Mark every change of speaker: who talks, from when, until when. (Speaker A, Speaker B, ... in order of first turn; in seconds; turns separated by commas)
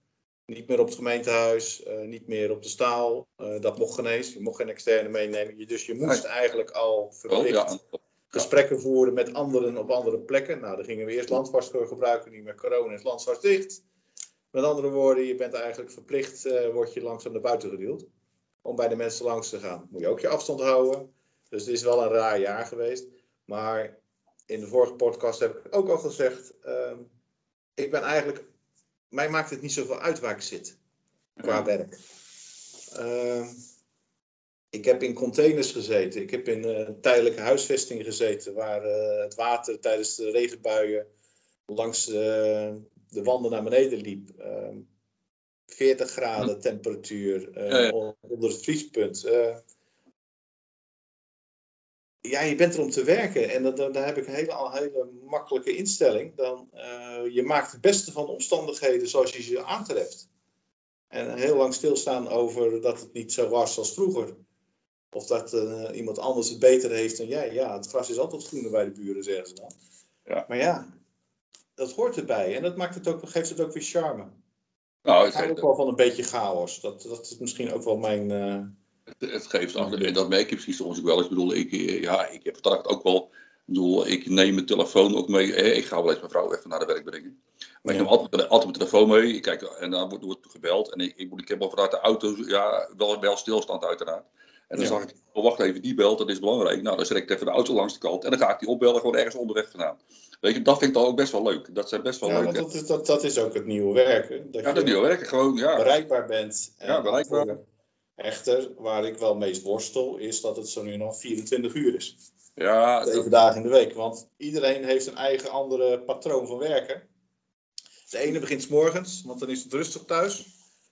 Speaker A: 0.5-7.8, Speaker B: 7.3-7.9, Speaker A: 8.3-13.8, Speaker A: 14.5-18.1, Speaker A: 18.6-27.1, Speaker A: 27.8-28.4, Speaker A: 29.1-30.8, Speaker A: 31.4-32.0, Speaker A: 32.9-33.6, Speaker A: 34.7-41.0, Speaker A: 41.7-44.9, Speaker A: 45.7-49.6, Speaker B: 47.7-47.9, Speaker A: 52.2-60.3, Speaker A: 61.1-64.3, Speaker A: 65.1-69.7, Speaker A: 70.5-70.9, Speaker A: 71.8-74.3, Speaker B: 75.0-75.6, Speaker A: 75.3-78.7, Speaker B: 79.2-102.6, Speaker A: 79.8-80.1, Speaker A: 87.8-88.1, Speaker A: 94.8-95.0, Speaker A: 102.2-105.0, Speaker B: 104.6-105.9, Speaker A: 105.8-107.6, Speaker B: 106.8-107.6, Speaker A: 108.2-112.2, Speaker B: 112.6-113.3, Speaker A: 113.0-117.0, Speaker A: 118.1-120.5